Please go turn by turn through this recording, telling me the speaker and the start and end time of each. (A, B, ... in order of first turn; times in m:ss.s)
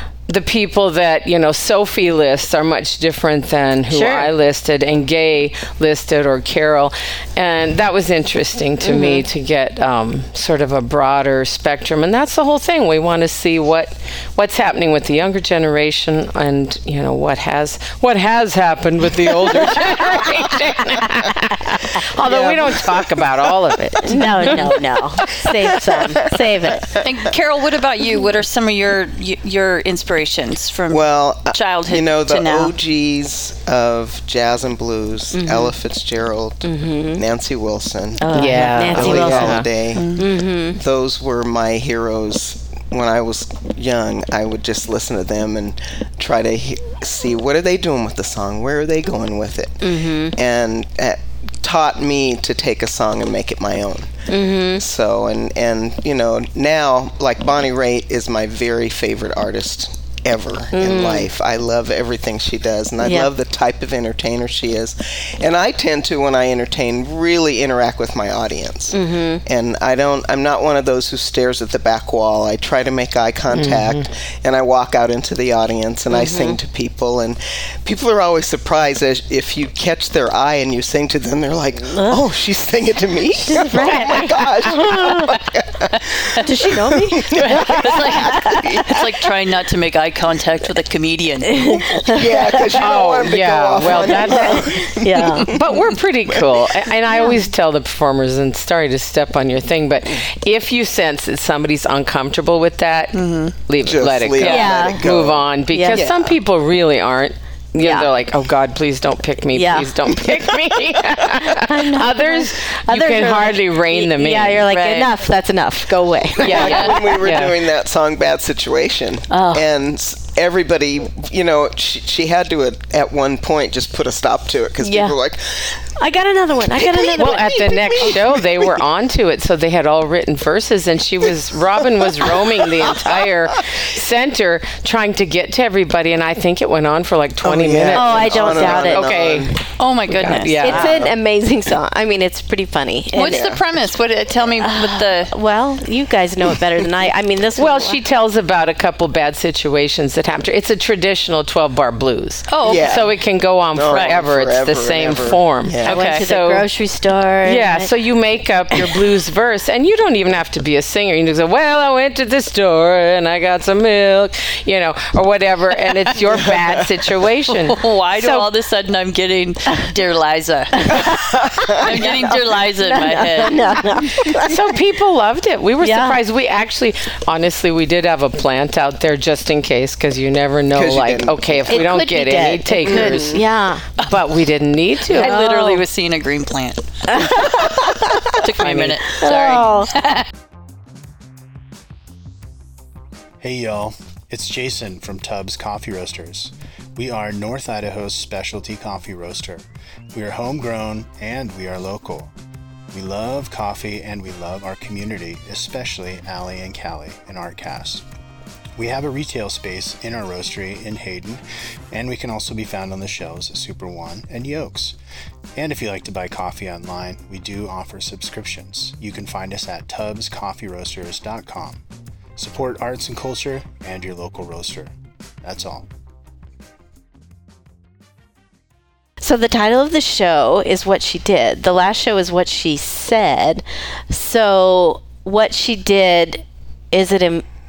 0:00.3-0:24.7 A
0:03.9-0:04.3 B
0:08.8-0:09.2 B
0:22.2-0:23.3 C
0:24.1-0:27.0 B
0:25.8-0:27.0 C
0:27.0-0:32.7 D
0:30.9-0:54.1 C
0:35.3-0:35.7 B
0:36.6-0:37.2 B
0:38.2-0:39.6 B
0:38.3-0:39.7 A
0:40.0-0:40.3 D
0:40.2-0:40.8 B
0:49.8-0:50.4 B
0:54.3-0:54.8 B
0:54.7-1:29.1 C
1:00.7-1:01.3 B
1:03.0-1:03.3 B
1:08.9-1:09.4 B
1:13.5-1:14.1 A
1:16.1-1:16.6 B
1:21.9-1:22.2 B
1:23.4-1:25.4 B
1:26.4-1:29.0 B
1:27.3-1:32.0 D
1:31.5-1:32.8 B
1:32.0-1:35.7 C
1:32.7-1:54.7 A
1:33.8-1:35.6 B
1:36.3-1:36.7 C
1:37.1-1:37.4 B
1:43.1-1:43.5 D
1:43.8-1:46.4 C
1:44.4-1:44.7 D
1:44.4-1:45.0 B
1:45.7-1:46.0 B
1:47.8-1:48.1 B
1:49.6-1:50.1 B
1:51.4-1:57.2 B
1:54.7-1:55.2 D
1:56.4-2:05.8 C
1:56.4-1:57.6 A
1:56.5-1:57.0 D
1:59.3-1:59.7 B
2:04.8-2:05.2 B
2:06.0-2:08.2 B
2:06.8-2:08.4 C
2:07.2-2:19.6 A
2:12.8-2:13.2 C
2:17.4-2:19.6 C
2:17.9-2:19.0 B
2:19.8-2:21.0 D
2:20.1-2:21.0 A
2:20.6-2:23.5 B
2:20.6-2:21.2 C
2:23.1-2:25.4 D
2:23.2-2:23.6 C
2:24.6-2:28.0 B
2:27.6-2:36.7 A
2:32.5-2:33.0 D
2:32.6-2:33.1 C
2:33.7-2:36.0 C
2:33.9-2:34.2 D
2:35.8-2:36.3 D
2:35.9-2:37.9 B
2:37.4-2:48.5 A
2:47.5-2:54.0 D
2:50.8-2:54.7 B
2:51.0-2:52.2 C
2:54.3-3:03.4 A
2:55.8-2:56.2 B
3:00.7-3:01.7 C
3:01.7-3:03.8 B
3:02.9-3:03.2 C
3:04.0-3:05.4 A
3:05.1-3:10.2 D
3:05.1-3:05.8 B
3:07.1-3:08.0 B
3:08.6-3:09.0 A
3:09.2-3:09.9 B
3:13.4-3:22.3 E
3:22.9-3:28.0 E
3:28.8-3:35.0 E
3:35.6-3:41.8 E
3:42.4-3:45.9 E
3:49.2-3:57.4 B